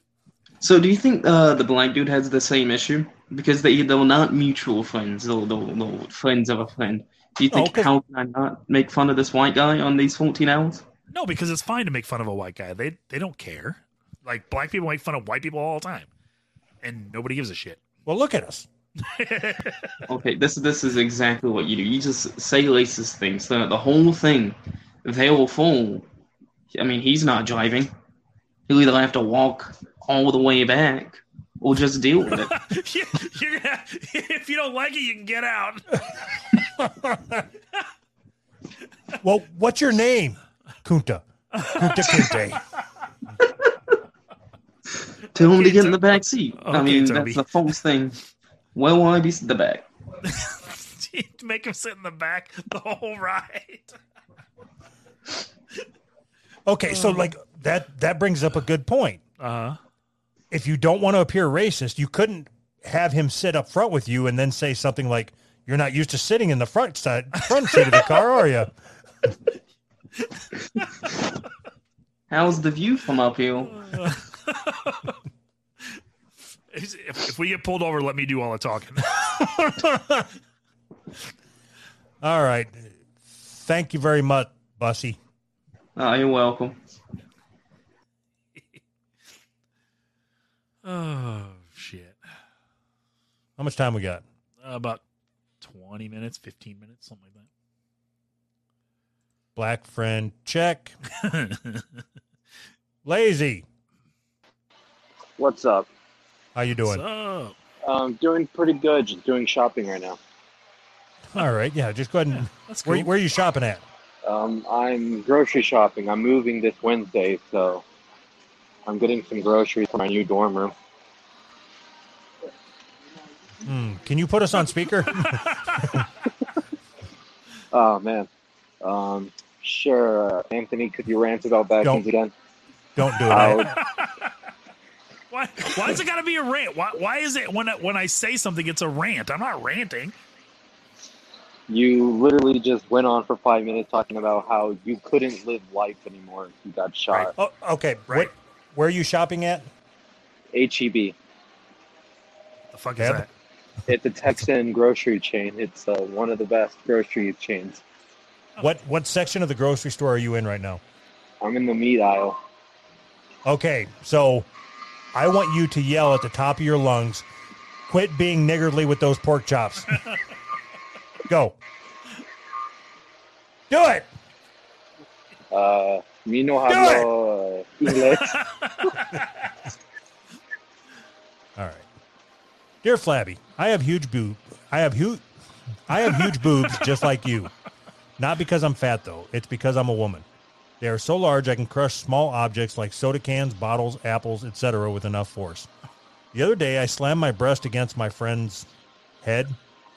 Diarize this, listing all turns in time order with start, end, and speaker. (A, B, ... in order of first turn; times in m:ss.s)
0:00.6-0:10.8 A
0:07.5-0:07.9 B
0:11.1-0:16.1 C
0:16.8-0:17.8 C
0:18.0-0:18.7 B
0:19.0-0:20.0 C
0:20.1-0:26.0 A
0:26.7-0:27.9 A
0:28.7-0:32.5 A
0:32.3-0:36.1 C
0:36.8-0:37.2 B
0:39.2-0:42.6 B
0:41.5-0:42.4 C
0:45.3-0:48.2 A
0:45.4-0:47.8 C
0:48.7-0:49.9 A
0:50.2-0:54.0 C
0:56.6-0:59.2 B
0:56.9-0:57.3 C
0:59.4-0:59.8 C
1:00.5-1:08.7 B
1:07.4-1:08.2 C
1:12.3-1:13.8 A
1:13.7-1:15.2 C
1:16.7-1:19.7 C
1:19.4-1:20.3 B
1:22.2-1:25.2 B
1:26.0-1:26.8 A
1:30.8-1:32.2 C
1:33.6-1:34.2 B
1:34.6-1:35.0 C
1:35.6-1:37.5 C
1:39.5-1:40.9 B
1:41.2-1:41.9 C
1:43.0-1:43.6 B
1:45.4-1:45.9 D
1:46.5-1:47.0 B
1:46.8-1:47.5 C
1:47.8-1:50.2 D
1:51.3-1:53.8 B
1:52.5-1:53.1 C
1:54.2-1:57.8 D
1:58.8-2:00.7 D
2:03.6-2:06.0 B
2:05.2-2:06.0 C
2:07.7-2:08.3 D
2:08.8-2:12.3 D
2:13.0-2:13.7 B
2:13.3-2:14.3 C
2:13.3-2:13.8 D
2:15.3-2:20.1 C
2:21.7-2:27.3 D
2:27.4-2:29.7 B
2:30.5-2:31.2 D
2:32.7-2:33.3 C
2:33.0-2:33.3 B
2:33.9-2:37.8 D
2:38.6-2:40.8 B
2:41.4-2:42.4 D
2:43.4-2:44.5 B
2:45.1-2:47.2 B
2:47.9-2:50.0 B
2:51.3-2:51.6 B
2:53.7-2:54.1 B
2:55.5-2:58.4 D
2:56.7-2:57.1 B
2:58.1-2:59.3 C
3:01.6-3:01.8 B
3:02.8-3:05.2 B
3:05.9-3:07.5 B
3:06.2-3:06.9 C
3:08.2-3:10.2 B
3:10.8-3:15.7 B
3:16.3-3:18.7 B
3:19.2-3:19.6 B